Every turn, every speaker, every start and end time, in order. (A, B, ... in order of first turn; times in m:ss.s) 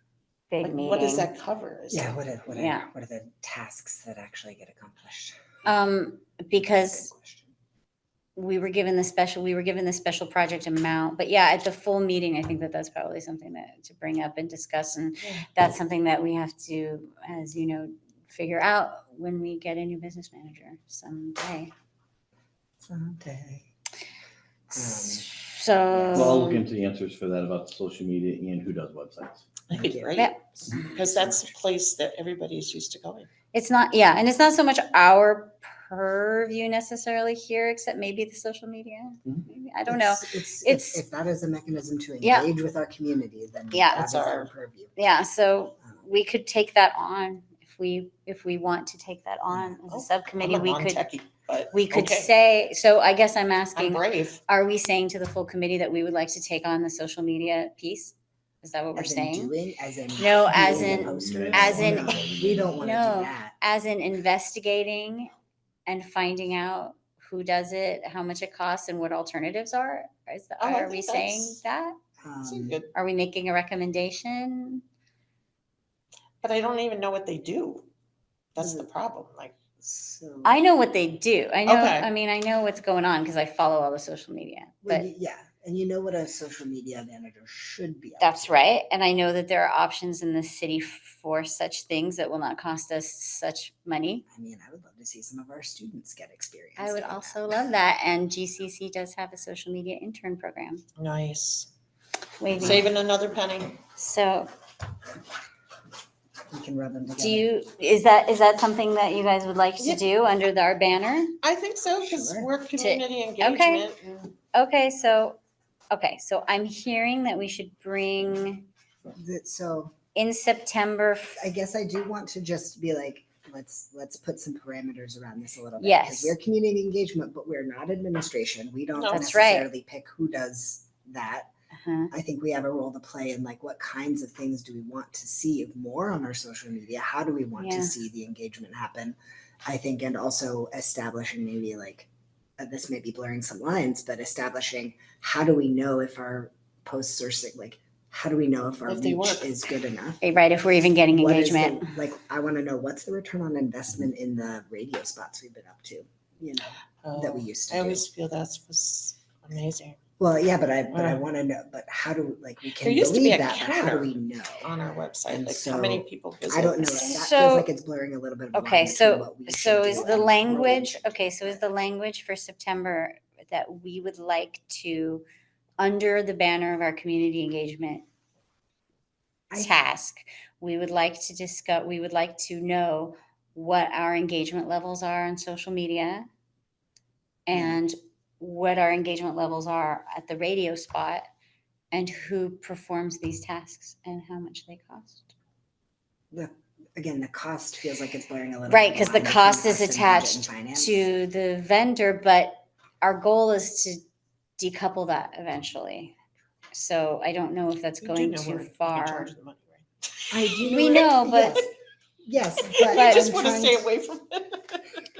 0:00.5-0:01.3 A
0:00.6-0:02.2 B
0:01.9-0:05.4 C
0:02.5-0:02.9 A
0:05.6-0:07.1 A
0:06.6-0:07.5 C
0:08.3-0:21.7 A
0:22.8-0:23.7 C
0:24.7-0:25.4 C
0:24.8-0:26.6 A
0:25.9-0:26.5 C
0:26.1-0:29.5 D
0:29.7-0:31.5 C
0:29.7-0:33.3 B
0:33.5-0:41.0 A
0:39.9-0:45.0 C
0:42.2-0:42.5 A
0:43.7-0:44.1 A
0:43.9-0:44.5 B
0:45.0-0:51.0 A
0:49.5-0:49.8 C
0:49.9-0:52.3 B
0:51.7-0:59.5 A
0:53.7-0:54.4 B
0:59.0-1:03.6 C
1:00.2-1:05.3 A
1:00.6-1:02.7 D
1:05.9-1:12.0 A
1:10.6-1:11.6 B
1:12.2-1:12.8 C
1:12.4-1:12.9 B
1:12.9-1:14.8 A
1:16.4-1:17.9 B
1:18.5-1:19.6 B
1:18.6-1:18.9 C
1:19.8-1:20.6 C
1:20.4-1:25.1 A
1:21.6-1:22.1 B
1:24.8-1:28.5 C
1:28.2-1:34.2 A
1:34.3-1:37.4 C
1:36.8-1:40.8 A
1:41.0-1:41.7 B
1:42.4-1:42.9 A
1:42.6-1:43.8 B
1:43.9-1:44.5 A
1:46.5-1:47.5 C
1:47.2-1:51.4 A
1:51.4-1:54.3 B
1:52.0-1:52.5 C
1:52.8-1:53.8 A
1:54.5-1:55.4 A
1:55.9-1:58.7 A
1:59.1-1:59.9 C
2:00.1-2:01.4 A
2:01.4-2:11.5 C
2:05.8-2:06.4 A
2:08.9-2:09.2 B
2:09.1-2:09.7 A
2:11.8-2:12.1 A
2:12.1-2:22.1 C
2:17.6-2:18.0 A
2:22.6-2:30.2 C
2:28.8-2:29.4 B
2:30.2-2:31.8 A
2:31.1-2:38.0 C
2:37.0-2:40.0 B
2:40.2-2:44.7 C
2:40.9-2:41.2 B
2:42.8-2:47.1 B
2:45.3-2:51.6 C
2:47.0-2:47.7 A
2:48.5-2:55.2 A
2:55.8-2:58.0 A
2:59.5-3:06.3 A
3:07.5-3:11.2 A
3:07.5-3:07.8 C
3:11.9-3:15.3 A
3:16.3-3:21.0 C
3:18.7-3:24.0 A
3:24.6-3:26.1 A
3:26.7-3:29.3 A
3:28.0-3:29.8 B
3:30.3-3:33.8 C
3:30.6-3:31.6 A
3:32.8-3:34.9 B
3:32.9-3:33.5 A